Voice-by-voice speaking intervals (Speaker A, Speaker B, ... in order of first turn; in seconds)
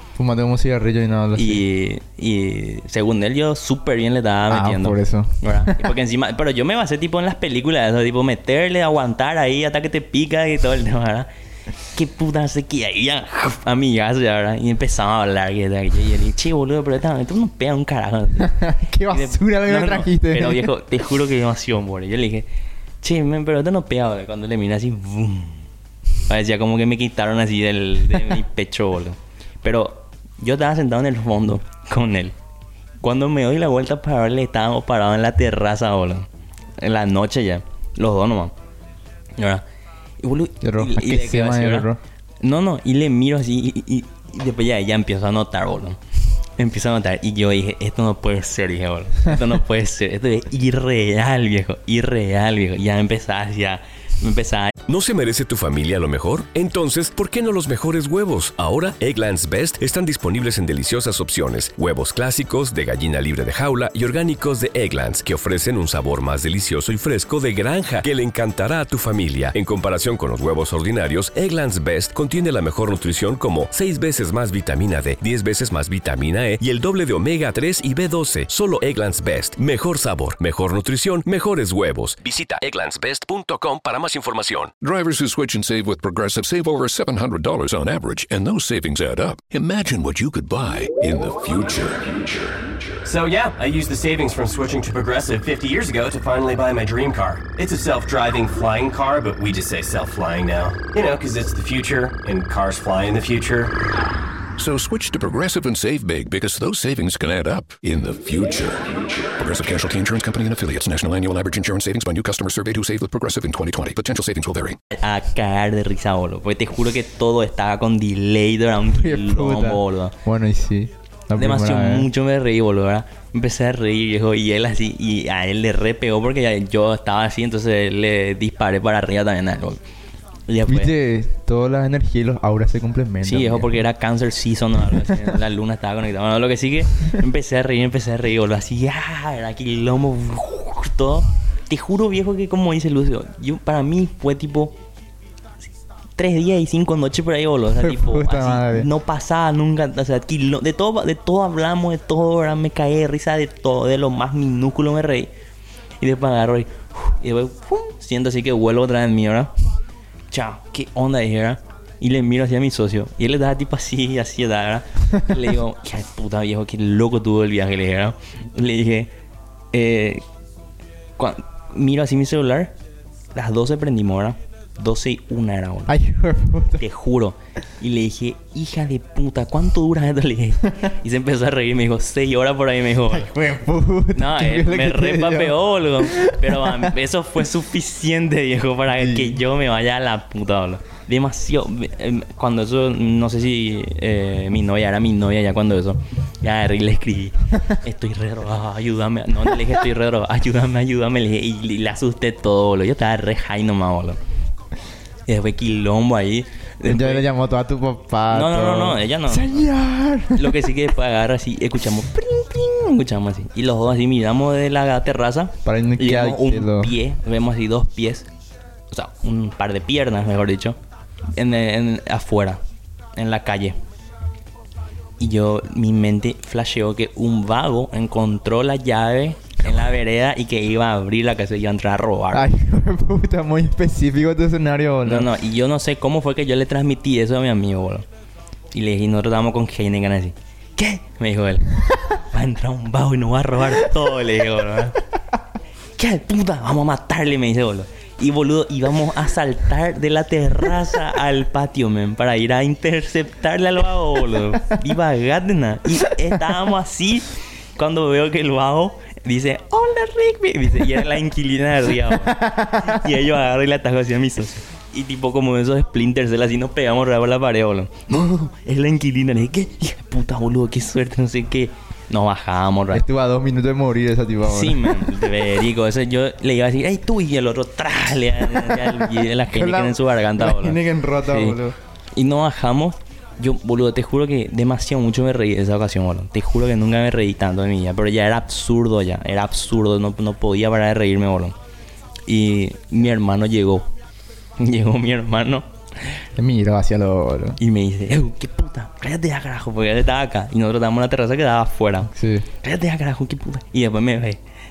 Speaker A: 0.2-1.6, 4.5-5.9, 18.4-20.7, 40.6-42.0, 118.9-122.1, 130.7-133.7, 147.7-148.9, 175.8-176.8, 183.1-186.9, 188.9-189.4, 206.8-210.7, 215.6-216.9, 232.3-235.3, 262.1-263.0, 272.9-275.2, 279.4-281.8, 296.4-297.6, 302.1-302.4
Speaker B: 1.3-11.3, 11.9-18.6, 19.1-22.4, 23.0-25.6, 26.3-32.3, 33.0-36.3, 36.8-38.5, 39.4-39.6, 40.2-41.9, 42.4-46.0, 46.6-54.7, 114.9-120.1, 121.3-129.8, 130.5-130.9, 133.2-144.7, 146.2-155.3, 156.0-159.5, 160.3-169.1, 169.7-170.2, 171.2-172.7, 173.3-175.9, 176.8-183.3, 184.1-204.2, 205.3-207.2, 208.3-209.7, 210.3-218.3, 218.9-220.8, 221.3-222.6, 223.2-223.8, 225.2-232.5, 235.0-238.1, 238.7-245.0, 246.0-273.0, 274.4-281.6, 282.1-291.5, 292.3-293.9, 294.6-296.2, 297.6-302.1, 302.6-304.4
Speaker C: 54.9-84.7
Speaker D: 84.8-92.5, 104.6-114.8
Speaker E: 93.0-103.7